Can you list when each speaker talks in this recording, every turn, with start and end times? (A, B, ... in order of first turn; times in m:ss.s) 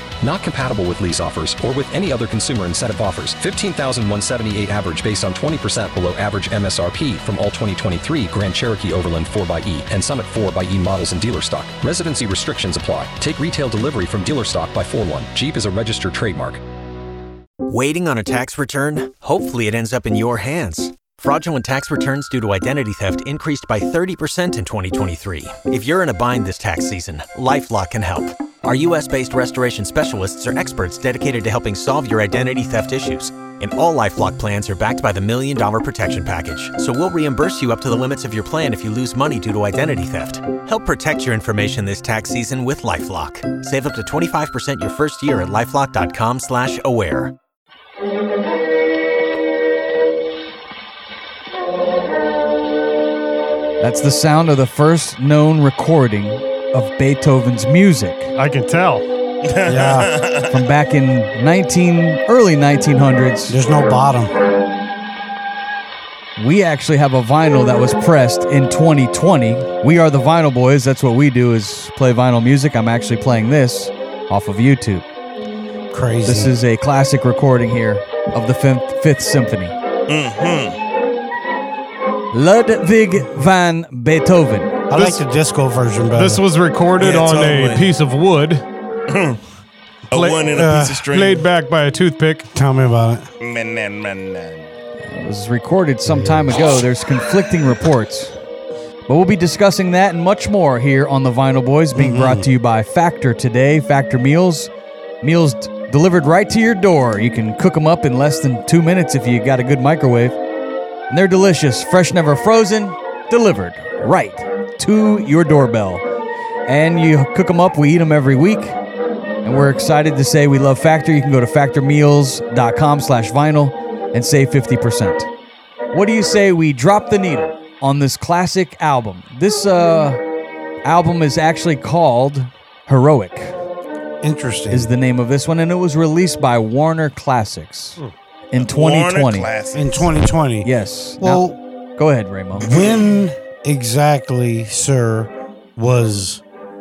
0:00.2-0:16.6 A
0:17.7-0:47.4 B
0:53.8-0:58.3 C
0:58.4-0:59.0 D
0:59.4-1:00.6 E
0:59.6-1:00.1 F
1:00.5-1:03.6 C
1:03.5-1:04.3 F
1:06.4-1:15.0 C
1:15.9-1:16.5 F
1:16.3-1:19.8 C
1:20.1-1:20.8 E
1:22.3-1:24.8 C
1:24.9-1:26.4 F
1:24.9-1:25.2 D
1:26.2-1:28.6 D
1:27.0-1:27.9 E
1:29.1-1:29.4 E
1:30.1-1:31.4 E
1:30.1-1:30.5 D
1:30.5-1:31.1 F
1:31.1-1:32.5 D
1:32.5-1:33.3 F
1:33.4-1:34.7 E
1:35.0-1:38.4 C
1:36.1-1:36.6 F
1:39.1-1:44.7 C
1:41.9-1:42.5 F
1:45.2-1:50.4 C
1:51.1-1:56.0 C
1:56.7-1:58.8 C
1:59.4-2:05.3 C
2:05.9-2:10.2 C
2:10.8-2:13.6 C
2:14.2-2:14.9 F
2:14.7-2:18.0 C
2:18.5-2:19.5 C
2:18.6-2:20.1 E
2:19.8-2:21.6 F
2:20.6-2:21.5 C
2:22.0-2:22.8 C
2:22.6-2:26.4 F